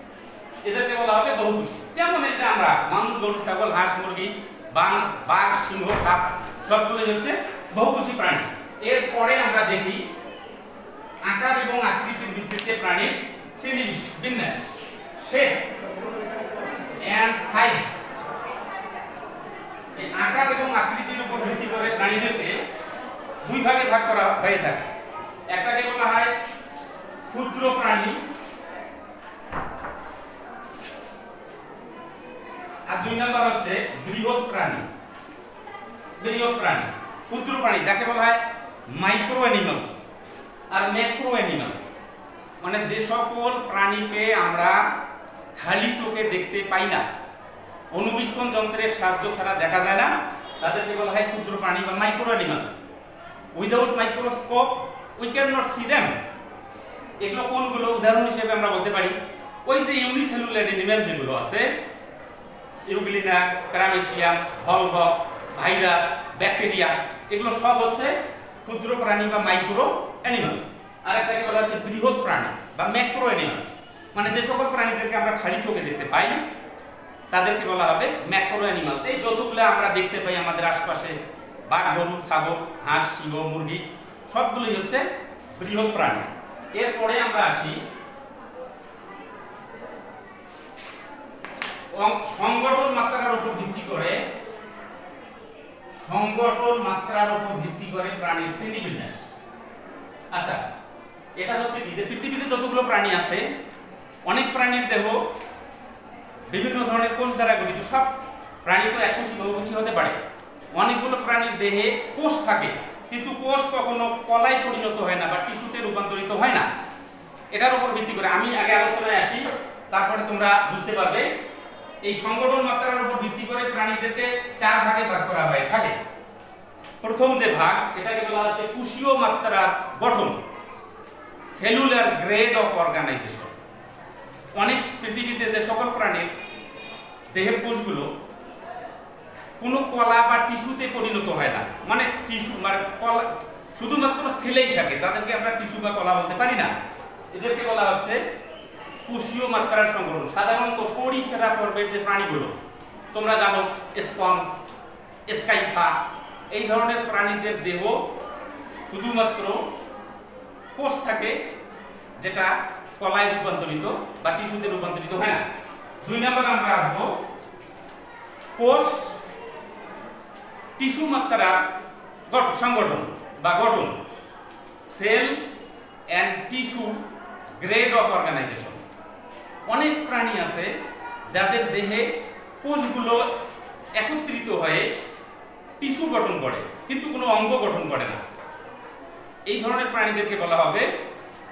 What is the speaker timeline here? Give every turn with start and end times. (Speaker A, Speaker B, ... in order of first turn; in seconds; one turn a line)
Speaker A: 0.6-10.0
Speaker A: 11.2-14.6
Speaker A: 15.2-15.7
Speaker A: 17.0-17.9
Speaker A: 20.0-22.6
Speaker A: 23.4-24.9
Speaker A: 25.5-26.3
Speaker A: 27.3-28.2
Speaker A: 32.9-34.9
Speaker A: 36.2-40.0
Speaker A: 40.7-41.9
Speaker A: 42.6-44.9
Speaker A: 45.6-47.0
Speaker A: 47.9-52.8
Speaker A: 53.5-56.1
Speaker A: 57.2-61.7
Speaker A: 62.9-68.1
Speaker A: 68.6-76.4
Speaker A: 77.3-81.2
Speaker A: 81.7-85.0
Speaker A: 85.5-87.8
Speaker A: 91.9-94.2
Speaker A: 96.0-99.3
Speaker A: 100.3-100.6
Speaker A: 101.4-103.4
Speaker A: 104.3-105.2
Speaker A: 106.5-110.2
Speaker A: 110.8-116.7
Speaker A: 117.5-121.3
Speaker A: 122.0-126.0
Speaker A: 127.0-130.4
Speaker A: 131.5-133.5
Speaker A: 134.6-136.3
Speaker A: 137.3-138.1
Speaker A: 139.6-146.7
Speaker A: 147.3-148.2
Speaker A: 149.1-152.6
Speaker A: 153.1-154.6
Speaker A: 155.3-156.0
Speaker A: 156.5-158.1
Speaker A: 158.9-159.6
Speaker A: 160.8-161.4
Speaker A: 162.2-165.4
Speaker A: 166.0-167.2
Speaker A: 168.6-169.2
Speaker A: 170.8-171.6
Speaker A: 172.3-174.0
Speaker A: 174.8-175.4
Speaker A: 176.1-177.0
Speaker A: 177.6-178.8
Speaker A: 179.7-180.7
Speaker A: 181.3-182.1
Speaker A: 182.6-183.3
Speaker A: 184.0-184.9
Speaker A: 185.8-188.2
Speaker A: 189.5-190.9